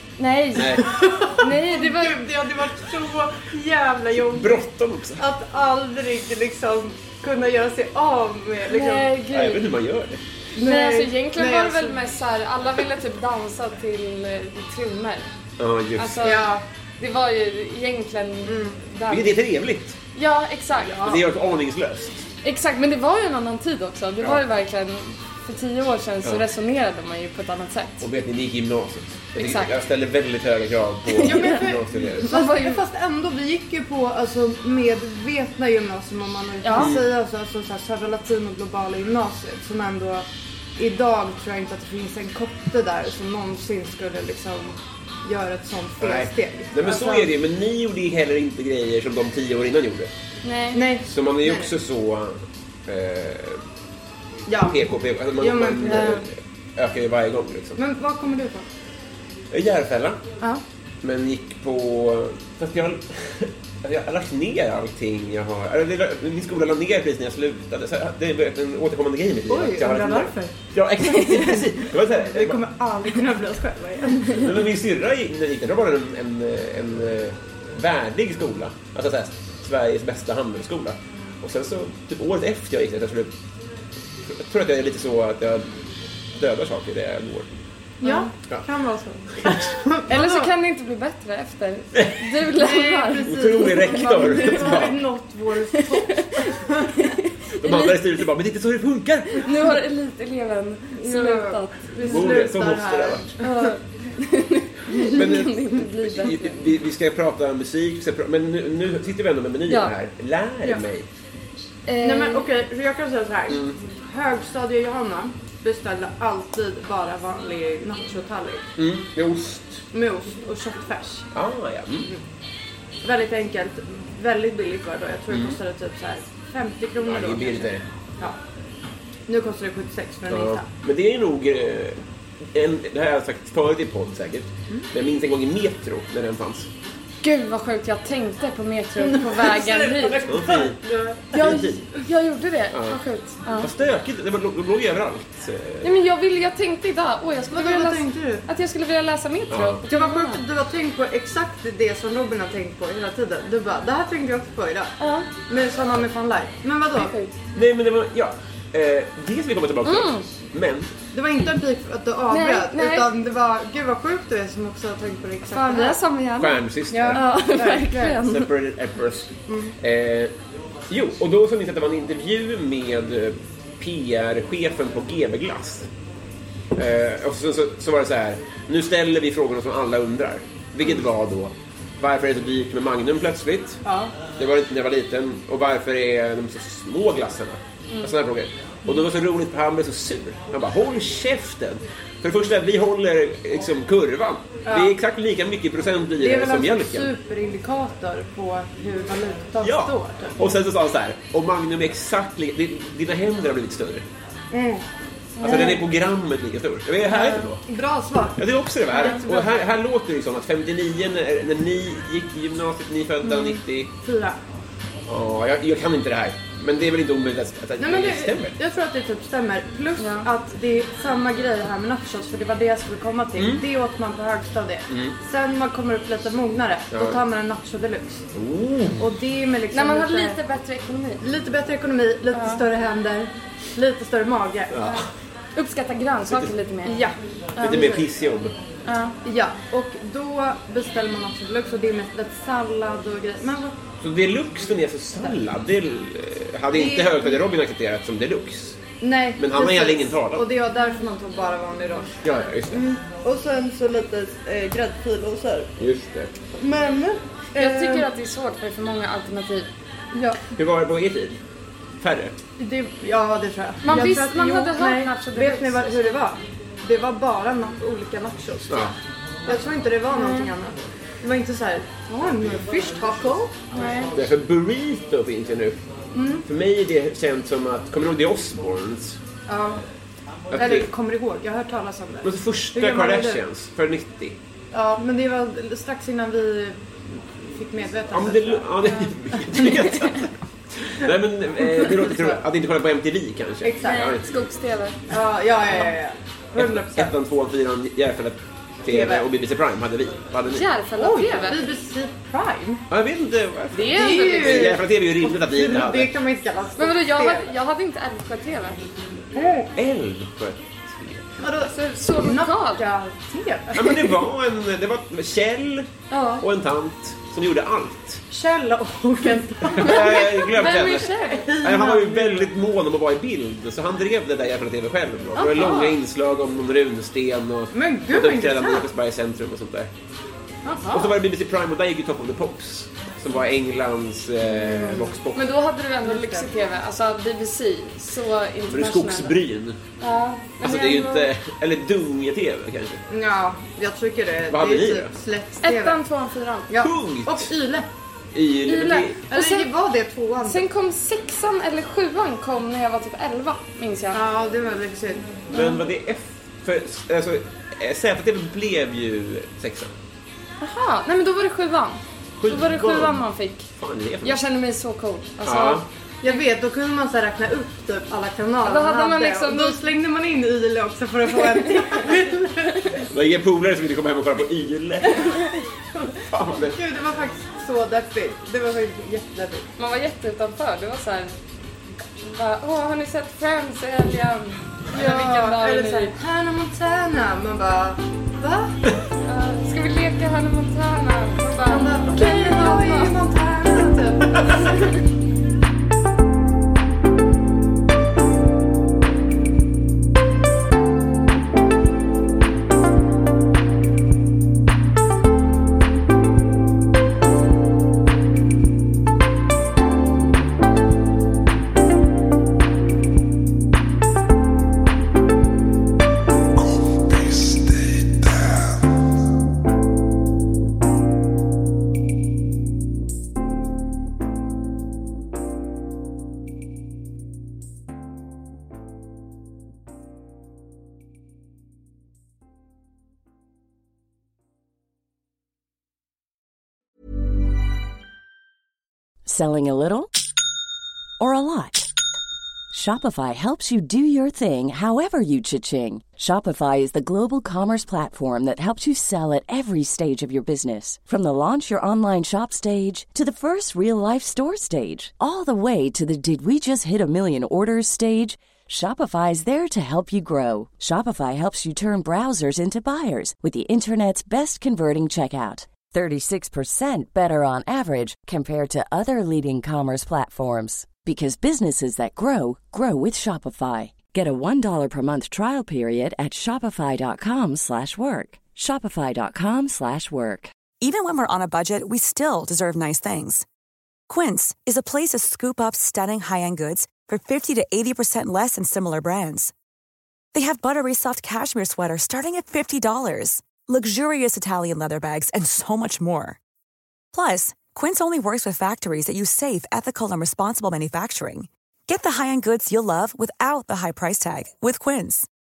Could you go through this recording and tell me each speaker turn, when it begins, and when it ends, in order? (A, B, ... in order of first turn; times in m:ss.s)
0:00.2-0:00.8 A
0:00.5-0:00.9 B
0:00.5-0:09.1 C
0:01.4-0:02.2 A
0:04.2-0:05.2 B
0:08.7-0:09.6 A
0:09.3-0:10.2 B
0:10.5-0:12.0 C
0:10.6-0:15.2 A
0:15.6-0:16.4 B
0:16.0-0:16.5 A
0:16.2-0:16.6 C
0:17.0-0:19.4 A
0:18.4-0:18.8 C
0:19.1-0:20.0 B
0:20.2-0:21.0 A
0:20.9-0:21.2 C
0:21.0-0:22.2 B
0:22.4-0:28.0 A
0:28.0-0:32.3 B
0:29.3-0:29.7 A
0:31.1-0:31.6 A
0:31.2-0:40.2 C
0:32.2-0:32.8 A
0:36.6-0:36.9 A
0:36.8-0:37.1 B
0:40.8-0:47.3 C
0:46.0-0:50.1 B
0:50.4-0:50.8 A
0:50.7-0:51.7 C
0:51.0-0:53.6 B
0:54.5-0:54.8 C
0:54.5-0:57.8 B
0:55.4-0:56.2 C
0:57.8-0:58.6 C
0:59.5-1:00.2 B
1:01.0-1:12.6 B
1:09.5-1:14.7 C
1:14.3-1:23.3 B
1:24.3-1:25.7 B
1:26.4-1:27.5 B
1:28.0-1:30.5 C
1:28.0-1:28.3 A
1:30.1-1:35.0 A
1:31.9-1:32.5 B
1:32.5-1:37.0 C
1:33.2-1:35.0 B
1:35.6-1:38.0 A
1:37.6-1:39.8 B
1:39.4-1:42.2 A
1:41.0-1:43.7 C
1:42.0-1:43.4 B
1:43.4-1:46.7 A
1:45.1-1:51.1 B
1:45.1-1:46.3 C
1:49.7-1:49.9 A
1:51.9-1:52.5 A
1:52.0-1:58.6 C
1:53.5-1:53.8 B
1:58.8-1:59.8 B
1:59.9-2:01.3 C
2:01.3-2:02.1 B
2:03.0-2:08.4 C
2:05.3-2:05.6 B
2:07.0-2:07.8 B
2:09.3-2:10.6 C
2:10.3-2:12.0 B
2:12.5-2:16.7 B
2:17.2-2:20.2 A
2:19.0-2:21.7 C
2:20.2-2:20.8 B
2:21.3-2:23.7 A
2:21.3-2:21.8 B
2:22.7-2:23.0 B
2:23.6-2:26.0 B
2:25.8-2:30.4 A
2:27.5-2:28.5 C
2:29.5-2:29.8 B
2:29.8-2:37.1 C
2:35.0-2:35.4 A
2:36.9-2:37.4 A
2:37.5-2:40.9 B
2:39.8-2:40.2 A
2:41.1-2:46.0 C
2:42.3-2:43.1 A
2:45.5-2:48.5 A
2:46.4-2:47.2 B
2:46.9-2:48.2 C
2:48.2-2:50.3 B
2:49.5-2:49.7 C
2:50.9-2:55.9 B
2:56.8-3:03.8 B
3:03.8-3:04.1 C
3:04.4-3:17.1 B
3:14.6-3:14.9 C
3:16.2-3:20.5 C
3:19.6-3:24.0 B
3:24.5-3:24.8 C
3:25.4-3:25.7 A
3:25.4-3:25.8 C
3:25.4-3:27.6 B
3:27.0-3:29.5 C
3:28.4-3:33.9 B
3:33.2-3:33.6 A
3:34.0-3:34.4 C
3:35.1-3:38.6 B
3:37.8-3:48.2 C
3:40.0-3:40.3 A
3:43.4-3:43.7 B
3:44.9-3:45.2 B
3:46.9-3:47.2 B
3:48.3-3:49.1 B
3:49.0-3:50.4 C
3:49.7-3:51.2 A
3:51.2-3:54.8 C
3:52.3-3:52.6 A
3:54.7-3:55.1 B
3:55.6-3:57.0 A
3:56.3-3:56.5 B
3:56.8-3:58.0 C
3:57.6-3:58.0 A
3:57.6-3:58.5 B
3:58.8-3:59.2 A
3:59.2-4:03.7 C
4:04.0-4:08.8 B
4:06.7-4:07.4 C
4:09.0-4:12.1 C
4:09.4-4:10.4 B
4:12.2-4:12.8 B
4:12.7-4:15.7 C
4:15.8-4:16.3 B
4:16.6-4:18.1 C
4:17.6-4:19.7 A
4:20.1-4:20.4 C
4:20.5-4:21.4 B
4:22.0-4:22.3 B
4:22.6-4:28.9 C
4:23.8-4:26.2 A
4:28.7-4:28.9 B
4:29.5-4:33.8 C
4:30.1-4:30.5 A
4:33.7-4:34.1 A
4:34.1-4:35.8 B
4:36.1-4:36.4 C
4:36.4-4:39.2 B
4:39.5-4:39.8 C
4:40.5-4:40.9 B
4:40.5-4:43.4 C
4:42.2-4:44.4 B
4:44.7-4:49.8 C
4:48.1-4:54.3 B
4:51.6-4:52.4 C
4:53.6-4:54.1 C
4:53.8-4:55.0 A
4:55.1-4:57.1 C
4:56.5-5:00.7 B
4:58.9-4:59.3 C
5:00.5-5:01.6 A
5:00.9-5:02.8 C
5:02.9-5:06.1 B
5:03.7-5:04.7 A
5:03.9-5:07.5 C
5:06.8-5:08.8 A
5:09.3-5:09.7 C
5:09.7-5:11.2 B
5:11.4-5:14.2 C
5:11.6-5:12.8 A
5:13.7-5:18.2 B
5:16.1-5:16.4 A
5:18.3-5:22.5 C
5:19.6-5:29.9 B
5:20.6-5:21.5 A
5:25.4-5:25.8 C
5:25.6-5:26.0 A
5:27.7-5:28.9 C
5:30.6-5:31.2 C
5:30.9-5:35.5 B
5:34.4-5:35.2 C
5:35.3-5:39.4 A
5:36.0-5:36.5 C
5:38.7-5:39.8 B
5:40.0-5:41.3 A
5:40.6-5:43.0 B
5:43.1-5:46.0 C
5:44.5-5:45.1 B
5:45.6-5:46.7 A
5:46.7-5:47.9 C
5:46.8-5:47.5 B
5:48.3-5:49.3 B
5:48.6-5:49.7 A
5:49.2-5:50.6 C
5:50.4-5:54.2 A
5:54.1-5:55.4 C
5:55.5-5:59.9 B
5:55.5-5:55.8 A
6:00.6-6:03.7 A
6:02.4-6:04.4 B
6:04.2-6:06.4 A
6:05.4-6:05.8 B
6:06.2-6:13.0 C
6:08.6-6:09.8 A
6:11.3-6:12.1 A
6:12.7-6:13.0 A
6:13.1-6:15.4 B
6:16.3-6:16.8 B
6:16.6-6:19.7 C
6:19.8-6:21.3 A
6:22.2-6:26.2 A
6:24.9-6:28.8 C
6:29.2-6:33.2 A
6:31.6-6:34.6 C
7:19.2-7:20.1 D
7:21.2-7:21.9 D
7:22.7-8:00.5 D
8:00.8-8:03.4 E
8:04.1-8:09.5 E
8:10.3-8:16.4 E
8:17.1-8:25.3 E